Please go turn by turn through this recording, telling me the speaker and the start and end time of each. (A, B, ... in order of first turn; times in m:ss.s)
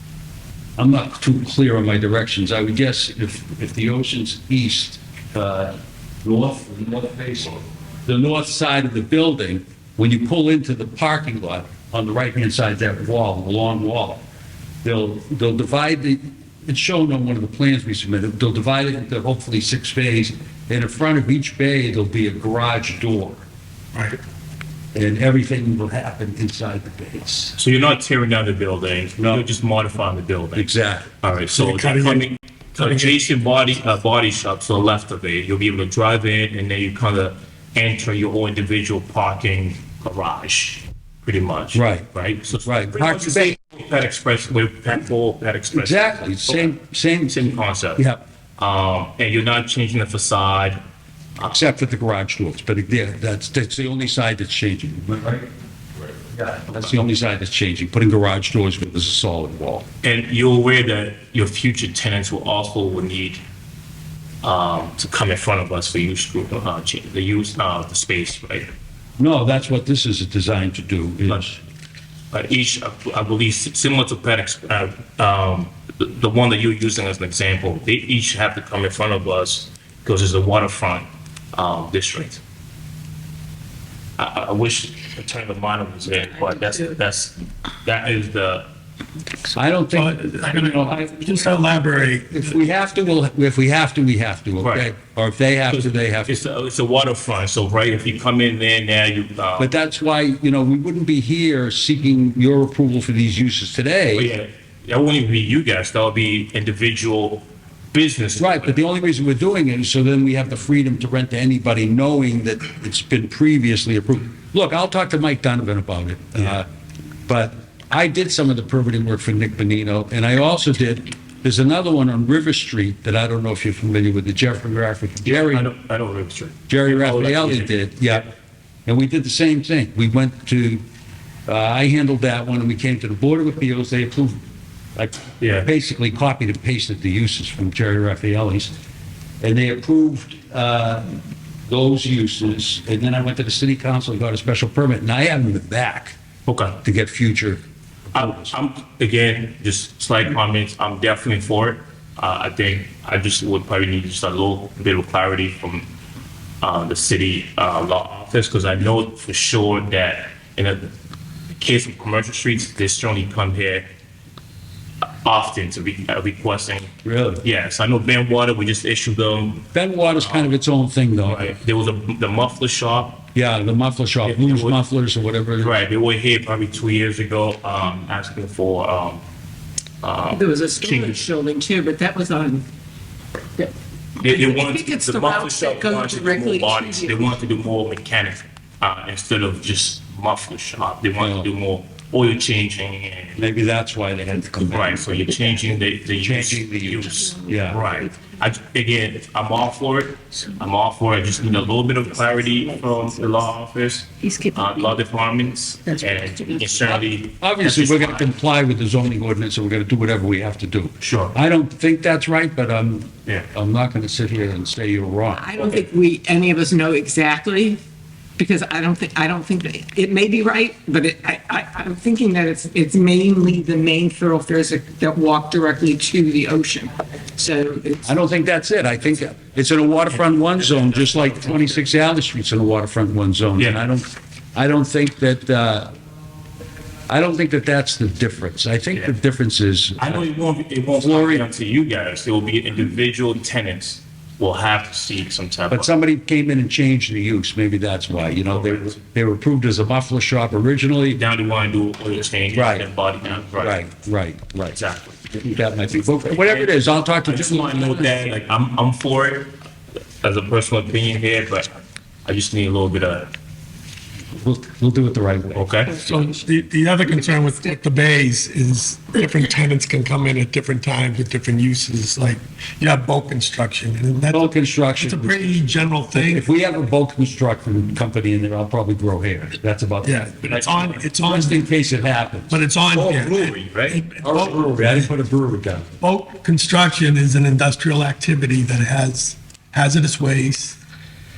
0:00.8-0:14.2 A
0:14.8-0:23.4 A
0:24.9-0:27.6 A
0:27.5-0:30.7 B
0:29.2-0:29.5 A
0:30.5-0:31.1 A
0:31.2-0:46.7 B
0:31.6-0:33.2 C
0:41.7-0:42.1 A
0:42.6-0:43.6 A
0:45.7-0:48.2 A
0:47.3-0:48.0 B
0:48.6-0:50.8 B
0:51.4-0:55.5 A
0:56.2-0:59.8 A
1:00.0-1:03.4 B
1:04.4-1:08.7 B
1:09.2-1:11.6 A
1:12.3-1:22.4 B
1:24.2-1:28.7 B
1:29.5-1:31.6 A
1:29.9-1:32.6 C
1:32.3-1:36.3 A
1:34.6-1:35.0 B
1:35.7-1:39.7 B
1:39.6-1:44.3 A
1:44.1-1:48.8 B
1:48.4-1:56.7 A
1:57.3-2:05.7 A
2:05.2-2:08.2 B
2:06.7-2:08.3 A
2:08.8-2:10.8 A
2:11.5-2:14.4 A
2:15.0-2:18.7 A
2:15.4-2:15.7 B
2:19.4-2:21.1 A
2:21.7-2:26.2 A
2:26.4-2:26.8 B
2:26.8-2:27.6 A
2:28.1-2:28.5 A
2:28.1-2:35.9 B
2:36.6-2:40.9 B
2:41.6-2:43.9 B
2:45.2-2:50.6 B
2:47.0-2:47.4 A
2:49.7-2:51.5 A
2:51.2-2:53.2 B
2:53.3-2:55.8 A
2:54.2-2:54.8 B
2:55.6-2:59.2 B
3:00.0-3:01.2 B
3:00.3-3:02.6 D
3:04.2-3:13.5 B
3:04.2-3:07.3 D
3:11.2-3:11.5 A
3:13.4-3:15.0 A
3:14.7-3:28.3 B
3:16.2-3:17.8 A
3:27.4-3:35.5 A
3:31.0-3:31.4 B
3:35.3-3:37.8 D
3:38.4-3:48.0 D
3:48.0-3:55.9 A
3:50.2-3:51.8 B
3:53.6-3:53.8 B
3:57.1-4:00.2 A
4:00.0-4:05.9 B
4:00.9-4:01.5 A
4:05.7-4:11.2 A
4:08.5-4:08.9 B
4:11.1-4:13.8 B
4:12.5-4:12.9 A
4:13.6-4:14.8 A
4:14.7-4:15.5 B
4:15.4-4:18.1 A
4:16.2-4:19.5 B
4:20.2-4:23.3 B
4:24.3-4:25.7 A
4:25.5-4:26.0 B
4:26.0-4:36.4 C
4:34.3-4:35.5 A
4:36.1-4:42.6 A
4:40.0-4:41.6 C
4:42.5-4:45.1 C
4:42.9-4:44.0 B
4:44.2-4:45.9 A
4:46.0-4:50.8 C